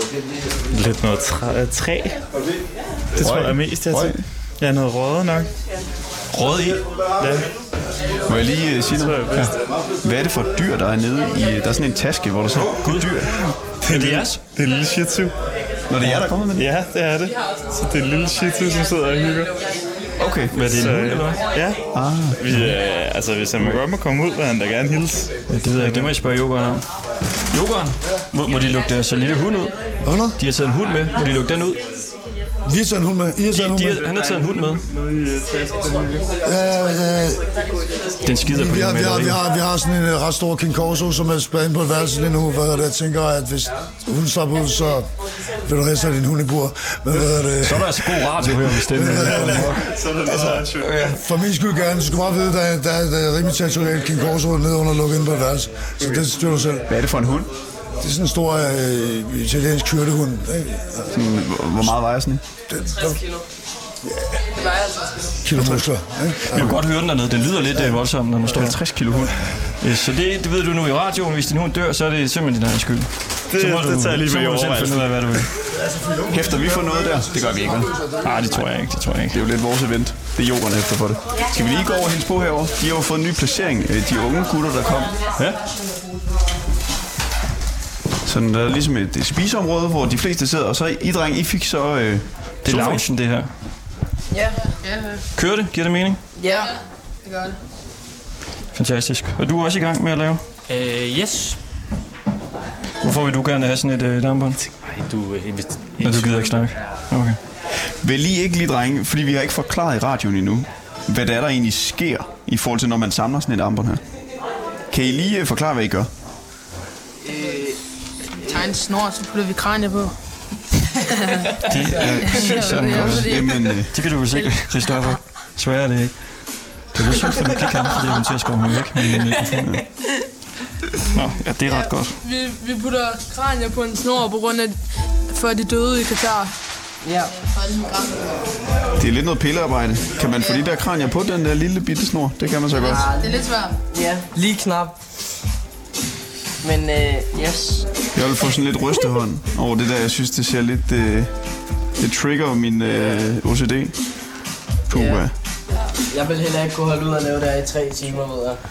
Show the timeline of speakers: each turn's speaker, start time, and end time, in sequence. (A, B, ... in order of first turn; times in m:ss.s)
0:00.7-0:02.2 A
0:03.2-0:05.5 A
0:03.2-0:04.2 B
0:06.3-0:06.8 C
0:07.2-0:07.5 A
0:08.3-0:09.2 B
0:08.9-0:09.5 A
0:10.0-0:13.5 B
0:12.8-0:13.1 C
0:13.8-0:14.4 C
0:13.9-0:15.3 A
0:15.9-0:16.7 B
0:16.5-0:19.5 A
0:20.2-0:20.6 B
0:20.5-0:21.4 C
0:20.7-0:26.1 A
0:21.9-0:22.4 B
0:25.5-0:26.8 C
0:27.5-0:29.7 C
0:30.0-0:30.4 D
0:30.4-0:31.8 C
0:32.6-0:34.0 D
0:33.5-0:34.8 C
0:34.1-0:36.3 A
0:36.4-0:37.4 D
0:38.2-0:39.4 C
0:38.5-0:45.1 D
0:45.6-0:56.9 D
0:47.1-0:49.8 C
0:49.2-0:51.1 A
0:56.9-0:57.5 B
0:58.0-1:01.1 D
1:01.1-1:02.4 B
1:02.7-1:03.2 D
1:05.4-1:06.7 D
1:06.5-1:08.8 C
1:08.5-1:09.4 B
1:09.8-1:15.5 C
1:13.5-1:15.4 A
1:15.8-1:18.3 D
1:16.3-1:17.9 B
1:18.2-1:19.4 C
1:19.3-1:25.2 B
1:28.2-1:33.0 B
1:32.6-1:33.5 C
1:34.8-1:35.2 E
1:35.4-1:36.2 C
1:36.4-1:36.7 F
1:36.5-1:37.6 E
1:38.8-1:40.4 C
1:40.7-1:41.6 G
1:43.0-1:44.6 C
1:45.0-1:46.5 G
1:46.0-1:47.4 C
1:48.0-1:54.0 B
1:54.9-1:56.1 B
1:57.2-1:57.8 F
1:58.4-2:00.1 E
2:01.1-2:01.5 E
2:01.6-2:06.4 C
2:02.0-2:03.8 E
2:02.8-2:03.9 B
2:06.9-2:09.8 C
2:09.6-2:09.8 B
2:11.1-2:12.2 C
2:11.7-2:14.8 E
2:15.3-2:16.5 E
2:17.0-2:17.3 F
2:17.4-2:18.2 E
2:19.0-2:23.0 B
2:22.8-2:25.0 F
2:23.0-2:23.8 E
2:26.6-2:27.9 F
2:28.1-2:31.3 B
2:32.0-2:34.0 B
2:34.9-2:35.3 B
2:34.9-2:35.2 F
2:36.1-2:38.6 F